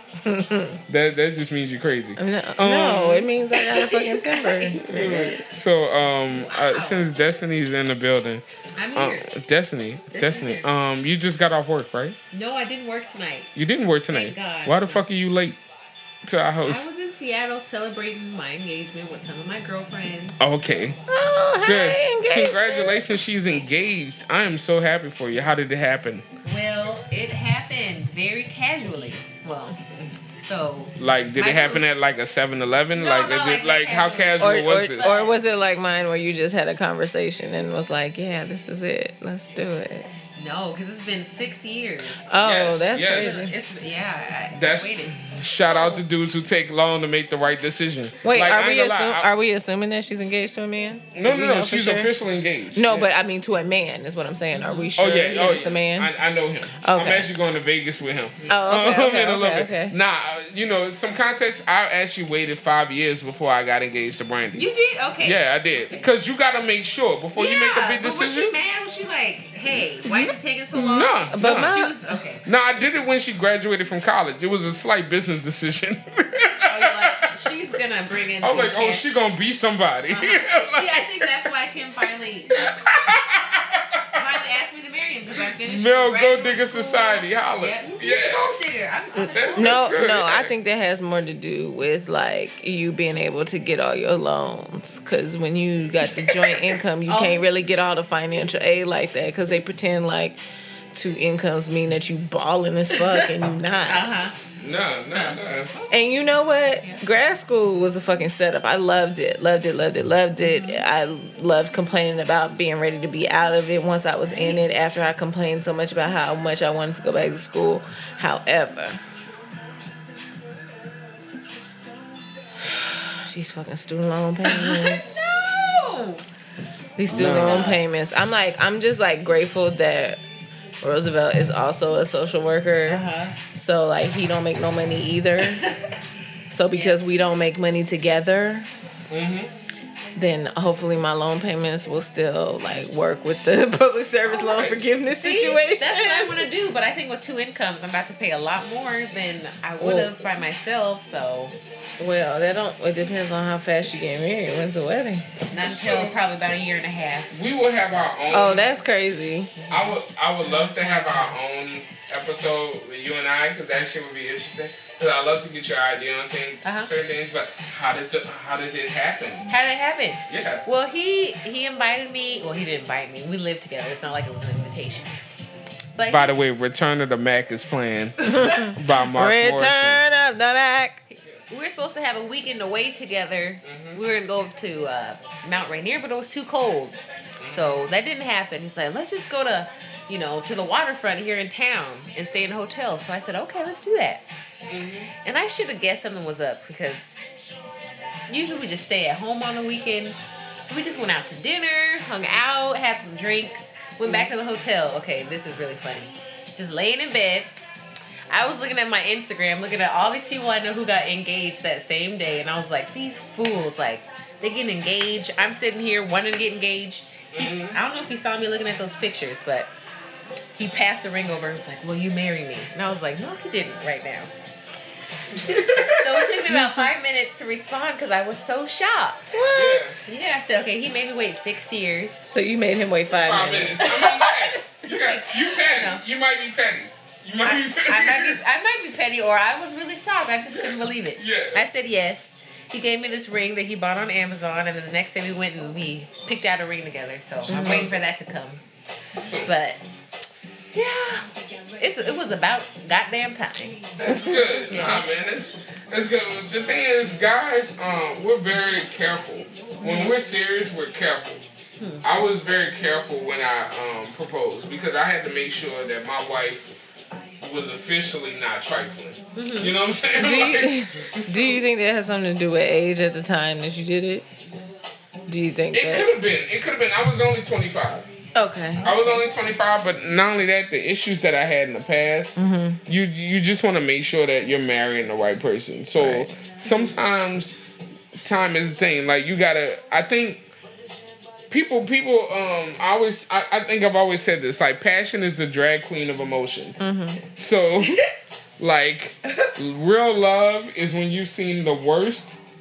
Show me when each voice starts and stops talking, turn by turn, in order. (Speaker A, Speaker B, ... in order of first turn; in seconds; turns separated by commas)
Speaker A: 0.2-0.8, Speaker B: 0.9-3.3, Speaker A: 2.1-5.3, Speaker C: 4.4-5.3, Speaker B: 4.7-12.2, Speaker C: 6.3-7.1, Speaker C: 8.8-9.3, Speaker C: 10.1-10.7, Speaker C: 12.3-13.5, Speaker B: 13.6-15.6, Speaker C: 14.1-15.1, Speaker B: 16.2-16.9, Speaker C: 16.6-20.4, Speaker B: 20.4-21.0, Speaker A: 21.1-23.1, Speaker B: 21.6-26.2, Speaker C: 26.4-29.8, Speaker C: 30.4-31.8, Speaker B: 31.0-35.2, Speaker C: 32.9-35.4, Speaker A: 34.4-40.1, Speaker C: 40.3-46.0, Speaker A: 42.2-43.5, Speaker B: 42.4-43.4, Speaker B: 44.5-49.3, Speaker A: 48.2-52.1, Speaker B: 51.1-53.1, Speaker A: 52.7-56.1, Speaker C: 54.5-54.9, Speaker B: 55.0-64.7, Speaker A: 56.8-57.3, Speaker A: 58.5-59.9, Speaker C: 64.5-66.1, Speaker B: 65.2-68.5, Speaker C: 67.3-72.4, Speaker A: 70.0-70.3, Speaker B: 70.7-71.8, Speaker A: 71.3-72.0, Speaker B: 72.4-77.5, Speaker C: 76.6-79.0, Speaker B: 78.4-81.5, Speaker C: 80.1-82.7, Speaker B: 82.5-84.2, Speaker C: 84.1-90.1, Speaker B: 85.6-88.5, Speaker B: 89.2-90.5, Speaker A: 89.5-100.4, Speaker C: 96.3-96.5, Speaker C: 97.0-97.4, Speaker A: 100.9-104.1, Speaker C: 103.0-104.4, Speaker B: 104.6-105.7, Speaker C: 105.1-105.9, Speaker A: 105.9-119.0, Speaker C: 110.4-110.8, Speaker C: 114.3-114.6, Speaker A: 122.8-125.1, Speaker C: 124.4-126.2, Speaker A: 127.0-130.2, Speaker C: 127.1-127.8, Speaker B: 127.1-127.8, Speaker A: 130.8-135.6, Speaker C: 132.8-133.4, Speaker C: 135.6-135.9, Speaker A: 136.5-138.7, Speaker C: 136.7-137.0, Speaker B: 139.1-139.5, Speaker A: 140.1-146.5, Speaker B: 144.3-144.8, Speaker C: 145.2-151.6, Speaker A: 149.8-150.1, Speaker A: 152.0-155.4, Speaker C: 155.5-157.5, Speaker B: 155.6-156.2, Speaker B: 157.3-158.7, Speaker A: 158.3-159.5, Speaker C: 159.6-161.4, Speaker B: 159.7-169.5, Speaker C: 166.6-166.9, Speaker C: 169.5-175.2, Speaker B: 170.3-170.6, Speaker C: 175.9-176.3, Speaker B: 176.1-180.0, Speaker A: 178.3-181.0, Speaker C: 181.1-194.2, Speaker B: 183.6-184.0, Speaker B: 187.4-187.9, Speaker B: 194.7-195.1, Speaker C: 195.2-197.3, Speaker C: 198.3-207.5, Speaker C: 208.3-219.7, Speaker B: 217.3-217.8, Speaker C: 220.5-224.3, Speaker B: 225.3-226.3, Speaker C: 225.4-229.3, Speaker A: 226.4-226.9, Speaker A: 229.3-230.0, Speaker B: 229.5-230.0, Speaker C: 230.0-232.3, Speaker A: 232.3-234.0, Speaker B: 233.2-238.4, Speaker C: 233.9-236.0, Speaker C: 237.4-248.6, Speaker B: 240.6-241.6, Speaker A: 247.5-247.9, Speaker B: 247.5-247.9, Speaker B: 249.2-249.5, Speaker C: 249.4-249.8, Speaker C: 250.7-253.9, Speaker B: 254.0-261.4, Speaker A: 254.1-254.3, Speaker C: 254.7-255.1, Speaker C: 259.8-260.1, Speaker C: 261.8-262.0, Speaker B: 262.0-266.8, Speaker B: 267.4-271.7, Speaker C: 269.3-269.8, Speaker A: 270.1-274.2, Speaker A: 275.3-276.1, Speaker B: 275.7-278.1, Speaker A: 278.3-279.1, Speaker B: 278.8-287.6, Speaker A: 282.4-282.8, Speaker A: 285.9-286.3, Speaker B: 288.2-290.4, Speaker B: 291.5-296.8, Speaker A: 296.8-297.2, Speaker B: 297.4-298.0, Speaker B: 298.6-302.4